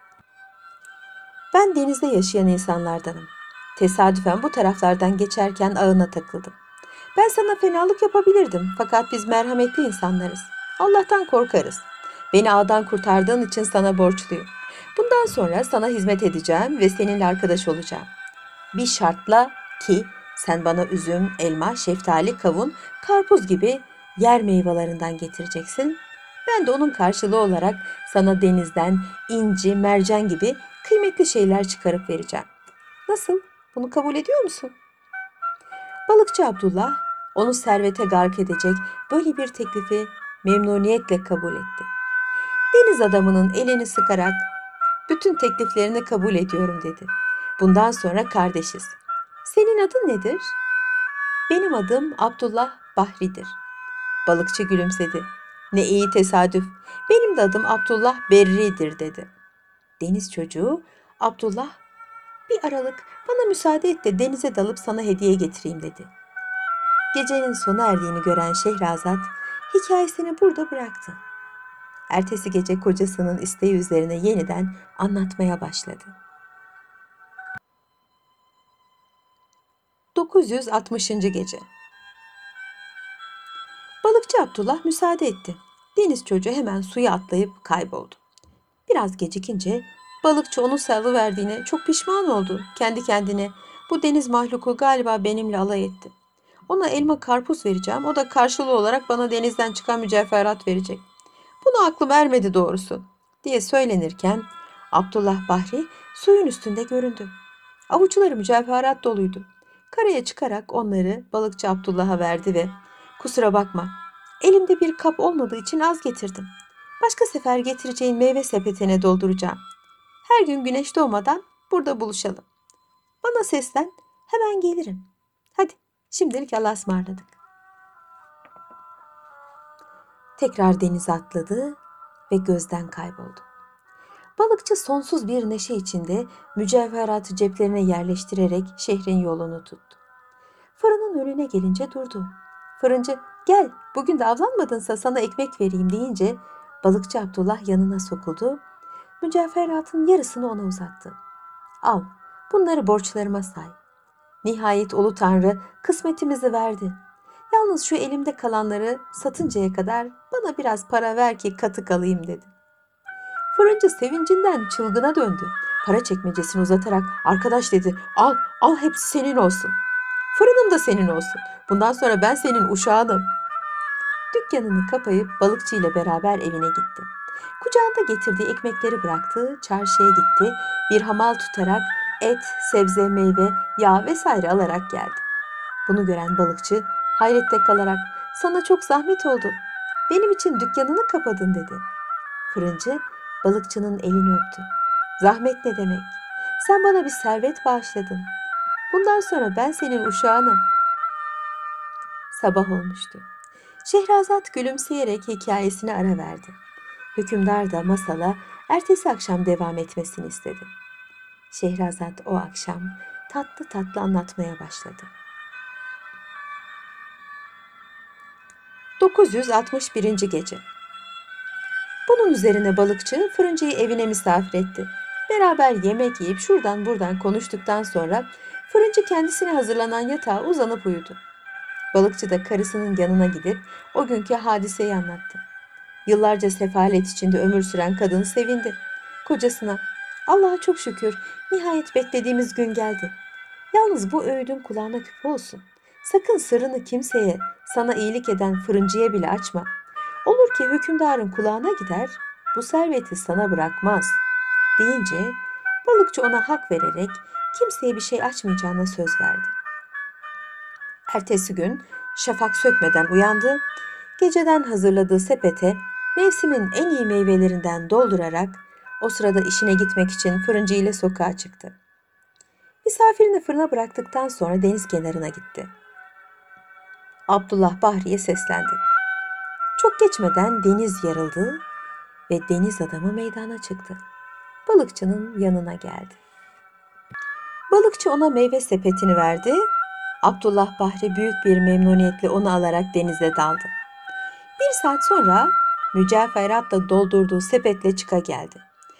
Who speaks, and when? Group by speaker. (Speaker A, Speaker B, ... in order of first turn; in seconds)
Speaker A: 1.5-6.5, 7.1-18.1, 18.7-32.5, 33.1-34.7, 36.1-41.9, 42.7-44.5, 45.1-50.6, 51.5-53.6, 54.2-59.3, 60.0-61.8, 62.5-66.1, 67.1-71.2, 72.1-76.1, 80.1-81.7, 84.0-88.2, 88.9-96.1, 96.7-101.0, 101.6-107.3, 107.9-119.6, 120.2-122.4, 123.2-127.4, 130.4-131.8, 132.3-133.4, 134.4-140.0, 140.8-148.6, 149.2-151.2, 151.8-153.8, 154.4-157.0, 157.5-162.5, 163.5-169.8, 170.3-173.3, 174.3-185.2, 185.8-191.8, 192.5-198.3, 198.9-200.7, 202.3-203.2, 203.8-206.6, 207.1-210.7, 211.5-215.1, 219.0-220.6, 222.1-231.2, 231.9-235.4, 236.1-243.2, 243.7-249.7, 250.2-254.2, 254.8-259.5, 261.1-263.6, 264.2-271.7, 272.8-275.7, 277.3-278.8, 279.8-281.6, 282.3-284.0, 284.6-286.2, 287.7-289.7, 290.2-293.7, 294.6-298.6